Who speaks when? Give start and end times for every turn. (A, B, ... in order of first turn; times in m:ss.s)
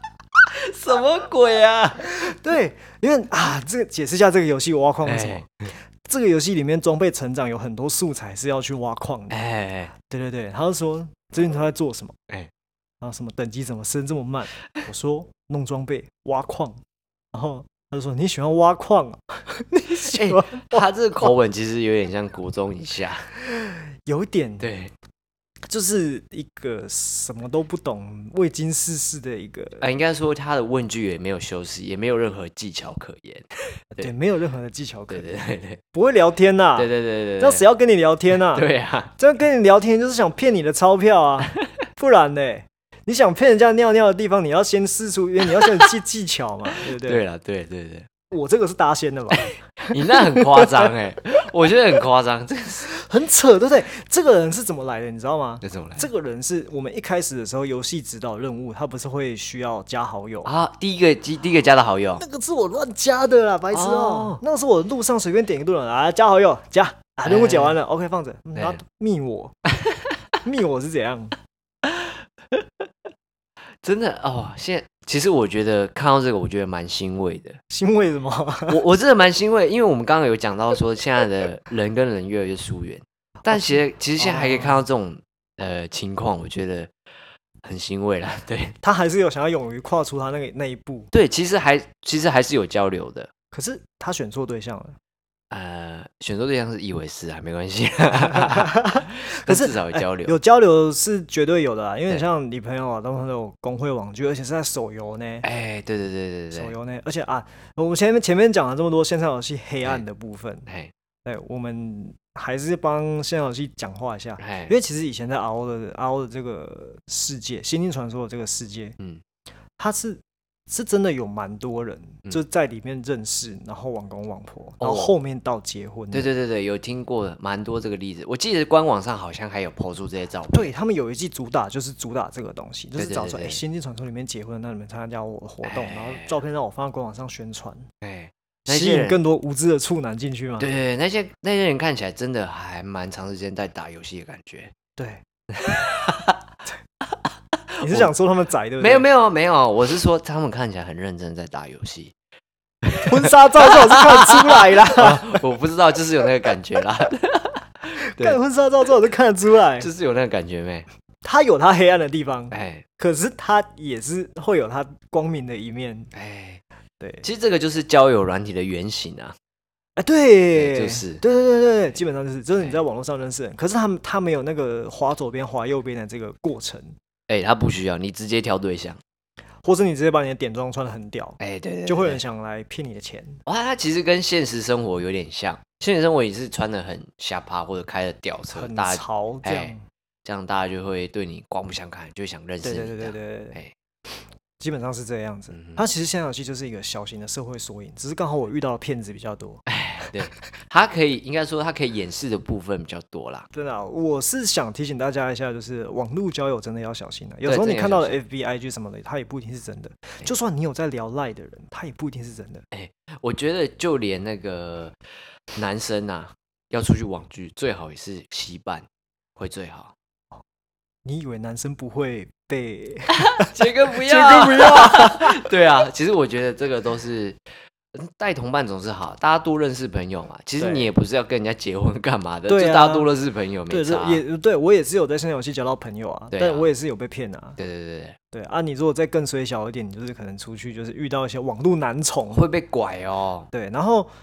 0:00.6-0:02.1 A
0:02.2-0:05.5 B
0:05.0-0:05.7 A
0:06.0-0:09.4 B
0:09.3-0:09.9 A
0:10.0-0:12.2 B
0:13.0-0:16.8 B
0:17.3-0:20.9 B
0:20.0-0:23.3 A
0:23.4-0:24.7 B
0:24.6-0:24.9 A
0:25.7-0:29.8 B
0:29.8-0:34.1 A
0:34.0-0:35.3 B
0:35.1-0:35.8 A
0:35.9-0:47.2 B
0:36.8-0:37.6 A
0:38.5-0:39.1 A
0:47.0-0:48.1 A
0:48.3-0:50.9 B
0:49.9-0:52.9 A
0:52.9-1:00.5 B
0:55.6-0:56.1 A
1:00.4-1:02.2 A
1:02.2-1:09.6 B
1:03.7-1:04.4 A
1:07.3-1:07.8 A
1:09.9-1:10.1 A
1:10.4-1:11.4 B
1:11.9-1:12.6 A
1:13.8-1:17.6 A
1:17.7-1:18.8 B
1:18.7-1:26.9 A
1:23.4-1:24.8 B
1:27.6-1:28.8 A
1:28.8-1:31.1 B
1:31.1-1:33.3 A
1:33.5-1:35.0 B
1:35.5-1:40.4 A
1:38.2-1:45.5 B
1:45.4-1:46.7 A
1:46.5-1:50.7 B
1:50.7-1:50.9 A
1:51.2-1:59.0 B
1:54.4-1:54.7 A
1:59.8-2:06.3 B
2:04.8-2:05.2 A
2:06.1-2:10.7 A
2:10.5-2:17.9 B
2:13.0-2:13.6 A
2:15.6-2:16.4 A
2:18.0-2:19.2 A
2:18.7-2:20.7 B
2:20.6-2:24.7 A
2:25.0-2:25.2 B
2:25.5-2:26.4 A
2:27.8-2:29.1 B
2:27.8-2:28.1 A
2:28.8-2:32.2 A
2:32.8-2:38.4 A
2:33.0-2:35.4 B
2:37.9-2:39.9 B
2:39.8-2:40.9 A
2:41.2-2:46.1 B
2:42.5-2:42.8 A
2:46.1-2:46.6 A
2:47.0-2:47.3 B
2:47.2-2:49.4 A
2:50.0-2:57.0 B
2:50.6-2:51.2 A
2:57.3-2:59.0 A
2:59.6-3:03.4 B
3:01.4-3:02.2 A
3:03.5-3:13.7 A
3:08.5-3:09.8 B
3:12.6-3:13.6 B
3:14.6-3:20.1 B
3:15.5-3:15.8 A
3:19.7-3:23.5 A
3:23.5-3:32.6 B
3:27.4-3:28.2 A
3:32.7-3:35.0 A
3:35.6-3:39.9 A
3:41.0-3:45.5 B
3:43.4-3:47.4 A
3:47.9-3:54.2 A
3:50.6-3:50.9 B
3:52.5-3:53.1 B
3:53.7-3:57.6 B
3:56.3-3:56.7 A
3:57.6-3:58.2 A
3:58.3-4:02.4 B
4:02.3-4:03.5 A
4:03.5-4:04.1 B